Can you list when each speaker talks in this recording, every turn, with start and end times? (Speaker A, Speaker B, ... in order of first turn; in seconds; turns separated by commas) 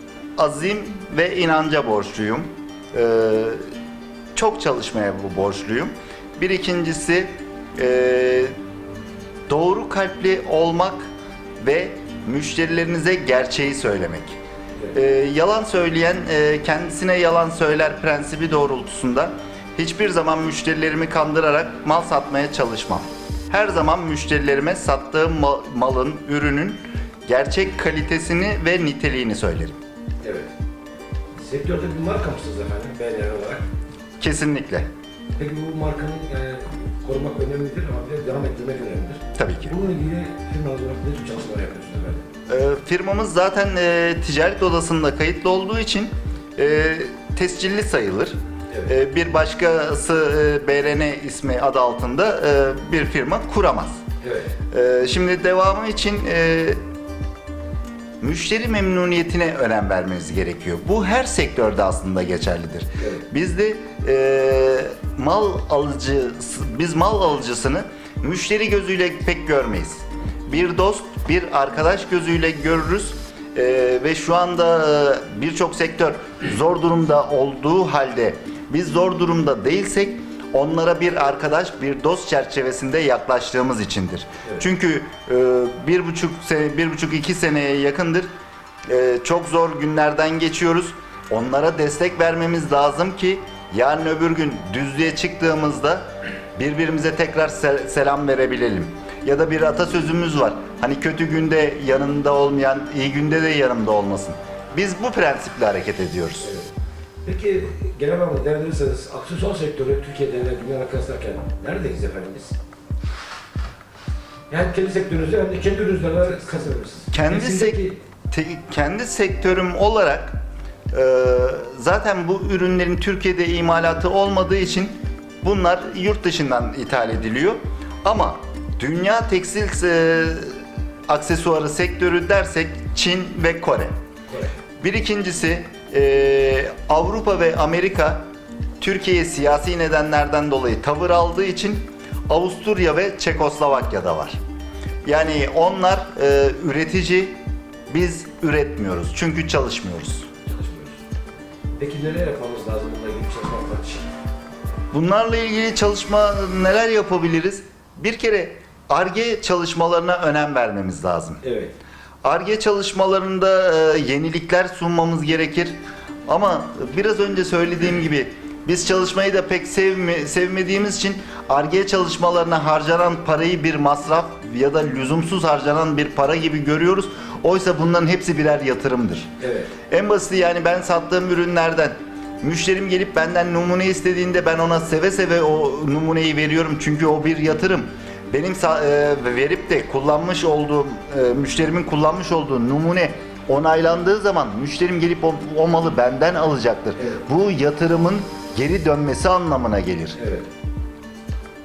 Speaker A: 0.4-3.6, Speaker A: 4.3-8.5, Speaker A: 9.5-11.1, Speaker A: 11.6-14.4, Speaker A: 14.9-29.8, Speaker B: 30.2-30.5, Speaker B: 31.4-33.6, Speaker A: 34.2-34.9, Speaker B: 35.4-42.2, Speaker A: 39.4-39.7, Speaker A: 42.5-48.3, Speaker A: 48.9-54.0, Speaker B: 54.2-54.5, Speaker A: 54.7-56.8, Speaker A: 58.2-88.3, Speaker B: 63.0-63.2, Speaker A: 88.9-96.0, Speaker A: 96.5-106.5, Speaker B: 106.4-106.7, Speaker B: 107.2-112.5, Speaker B: 114.5-118.0, Speaker A: 117.1-120.4, Speaker A: 120.9-133.9, Speaker B: 134.3-134.5, Speaker A: 134.8-138.2, Speaker A: 138.8-144.4, Speaker A: 145.0-147.4, Speaker A: 147.9-150.3, Speaker B: 150.4-151.0, Speaker B: 151.8-154.1, Speaker A: 154.9-161.4, Speaker B: 161.4-161.7, Speaker A: 162.2-165.8, Speaker A: 166.3-179.3, Speaker B: 179.4-179.7, Speaker A: 179.9-200.2, Speaker B: 197.0-197.2, Speaker B: 200.1-200.5